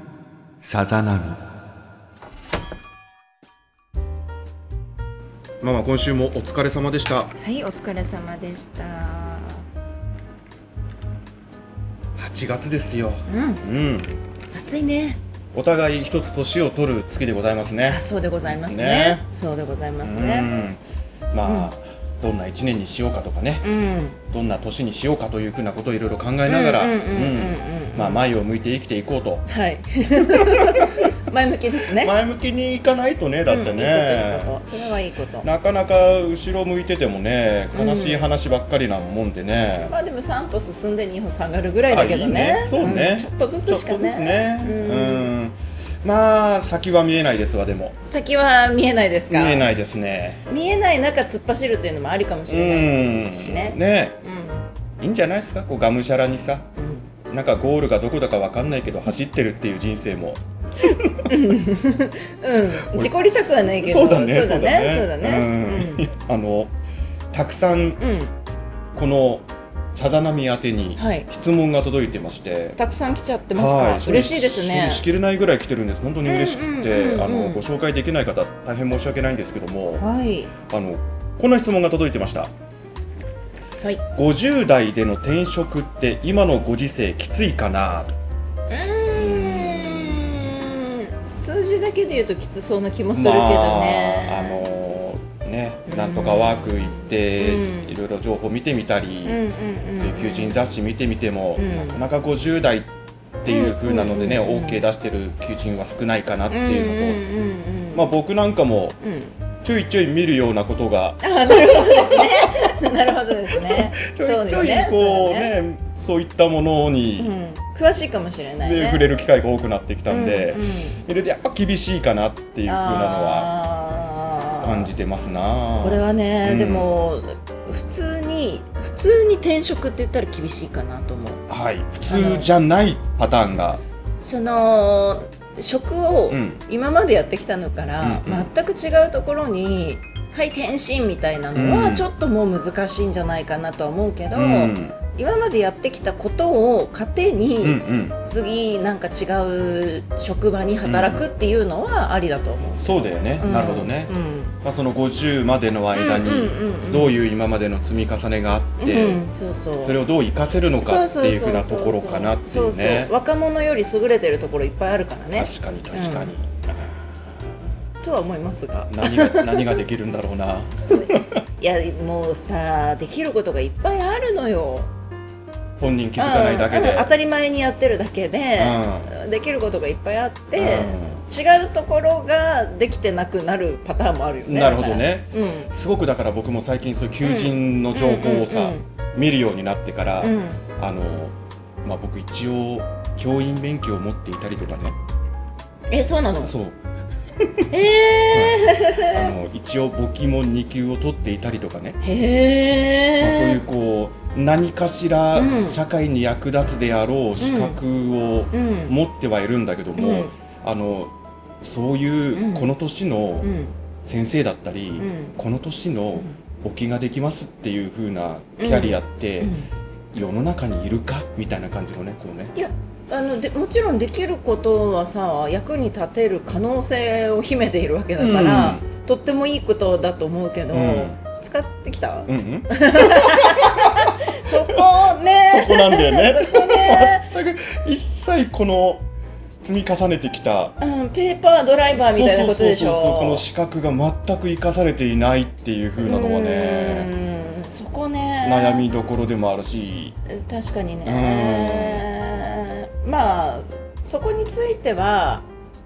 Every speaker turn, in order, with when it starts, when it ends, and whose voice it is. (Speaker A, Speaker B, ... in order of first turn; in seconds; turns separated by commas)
Speaker A: 0.6-1.4, Speaker A: 5.6-7.3, Speaker B: 7.4-9.6, Speaker A: 12.2-14.1, Speaker B: 13.3-13.6, Speaker B: 14.5-15.2, Speaker A: 15.5-19.2, Speaker B: 17.8-20.5, Speaker A: 20.0-23.7, Speaker B: 21.4-21.7, Speaker B: 23.6-24.2, Speaker A: 24.2-29.4, Speaker B: 26.4-28.2, Speaker B: 29.5-32.1, Speaker A: 30.4-31.1, Speaker A: 31.9-34.6, Speaker B: 33.5-35.5, Speaker A: 35.4-39.9, Speaker B: 37.7-38.3, Speaker B: 39.9-45.3, Speaker A: 41.9-48.0, Speaker B: 48.0-49.7, Speaker A: 49.3-50.4, Speaker B: 50.5-54.7, Speaker A: 52.5-54.2, Speaker A: 55.0-56.7, Speaker B: 56.8-57.1, Speaker A: 57.3-61.3, Speaker B: 61.2-66.0, Speaker A: 62.8-63.1, Speaker A: 63.8-66.7, Speaker A: 67.3-68.0, Speaker B: 68.0-68.3, Speaker A: 68.9-72.8, Speaker B: 71.0-71.3, Speaker B: 72.8-75.0, Speaker A: 73.5-80.0, Speaker B: 76.2-77.6, Speaker B: 80.0-80.5, Speaker A: 80.6-82.5, Speaker A: 84.1-88.1, Speaker B: 88.7-94.7, Speaker A: 89.2-90.3, Speaker A: 93.1-99.4, Speaker B: 95.9-97.9, Speaker B: 99.2-100.6, Speaker A: 99.9-102.9, Speaker B: 101.5-102.0, Speaker A: 103.4-107.2, Speaker B: 103.5-104.8, Speaker B: 106.5-108.1, Speaker A: 107.9-109.0, Speaker B: 109.0-109.3, Speaker A: 109.6-112.5, Speaker B: 111.2-115.5, Speaker A: 113.5-117.3, Speaker B: 117.2-119.1, Speaker A: 118.4-123.5, Speaker B: 120.1-121.0, Speaker B: 122.7-124.9, Speaker A: 124.6-126.9, Speaker B: 125.8-131.4, Speaker A: 131.5-133.8, Speaker B: 132.1-132.5, Speaker B: 134.2-154.6, Speaker A: 136.3-136.6, Speaker A: 138.0-138.5, Speaker A: 141.5-142.1, Speaker A: 144.3-145.0, Speaker A: 147.6-148.2, Speaker A: 150.8-151.2, Speaker A: 152.7-159.2, Speaker B: 155.9-157.2, Speaker B: 158.8-160.0, Speaker A: 159.8-163.1, Speaker B: 160.8-166.3, Speaker A: 165.3-167.1, Speaker B: 168.0-169.8, Speaker A: 168.9-171.3, Speaker B: 171.6-174.9, Speaker A: 175.8-177.1, Speaker B: 176.2-185.7, Speaker A: 178.6-179.1, Speaker A: 180.5-181.2, Speaker A: 184.4-194.9, Speaker B: 187.2-188.8, Speaker B: 190.2-190.6, Speaker B: 195.9-196.5, Speaker A: 196.4-196.8, Speaker B: 197.7-199.3, Speaker A: 198.3-202.0, Speaker B: 202.0-203.6, Speaker A: 203.2-213.5, Speaker B: 205.3-205.8, Speaker B: 207.4-207.8, Speaker B: 208.5-208.9, Speaker B: 210.0-210.3, Speaker B: 212.3-212.7, Speaker B: 213.4-213.7, Speaker A: 214.0-219.5, Speaker B: 215.0-215.3, Speaker B: 218.6-219.7, Speaker A: 220.1-222.5, Speaker B: 222.5-237.3, Speaker A: 228.2-228.8, Speaker A: 230.7-231.2, Speaker A: 232.3-234.8, Speaker A: 235.5-239.0, Speaker A: 239.6-240.8, Speaker B: 240.8-243.4, Speaker A: 241.9-247.1, Speaker B: 246.0-248.9, Speaker A: 248.4-250.2, Speaker B: 250.3-255.5, Speaker A: 251.0-252.1